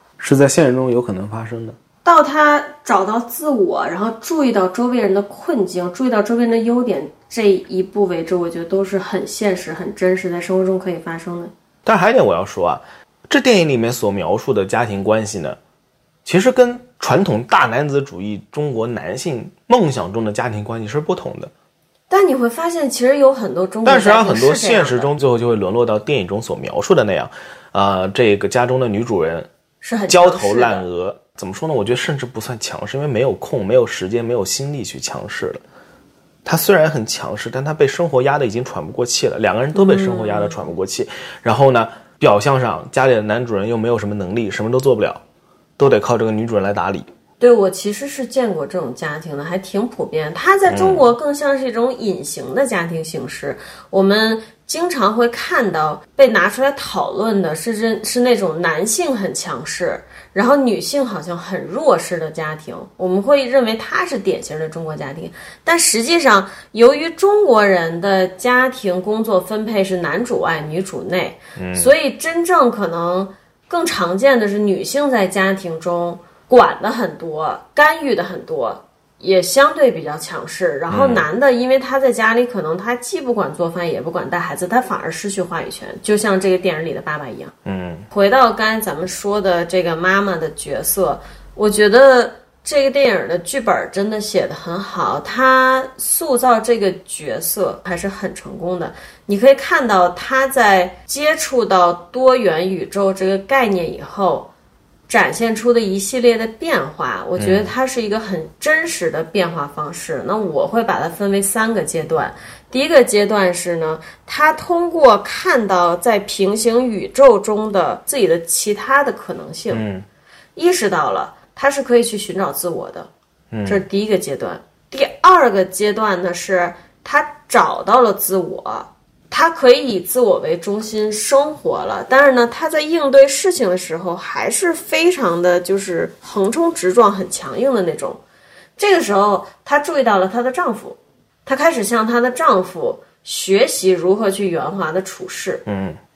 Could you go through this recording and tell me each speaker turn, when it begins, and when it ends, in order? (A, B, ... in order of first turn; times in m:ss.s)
0:00.2-0:01.8 A
0:02.0-0:11.5 B
0:11.8-0:15.6 A
0:16.2-0:21.5 A
0:22.1-0:25.1 B
0:23.8-0:29.5 A
0:29.8-0:30.8 B
0:30.1-0:35.6 A
0:36.4-0:45.2 A
0:39.7-0:40.6 B
0:45.8-0:47.1 A
0:47.4-1:27.5 B
0:50.7-0:51.1 A
1:11.6-1:11.9 A
1:20.9-1:21.3 A
1:27.6-1:28.0 A
1:28.1-1:44.5 B
1:45.1-1:59.8 B
1:47.4-1:47.7 A
1:59.7-2:00.0 A
2:00.6-2:03.1 B
2:03.5-2:03.8 A
2:03.6-2:18.2 B
2:18.8-2:25.6 B
2:25.6-2:26.0 A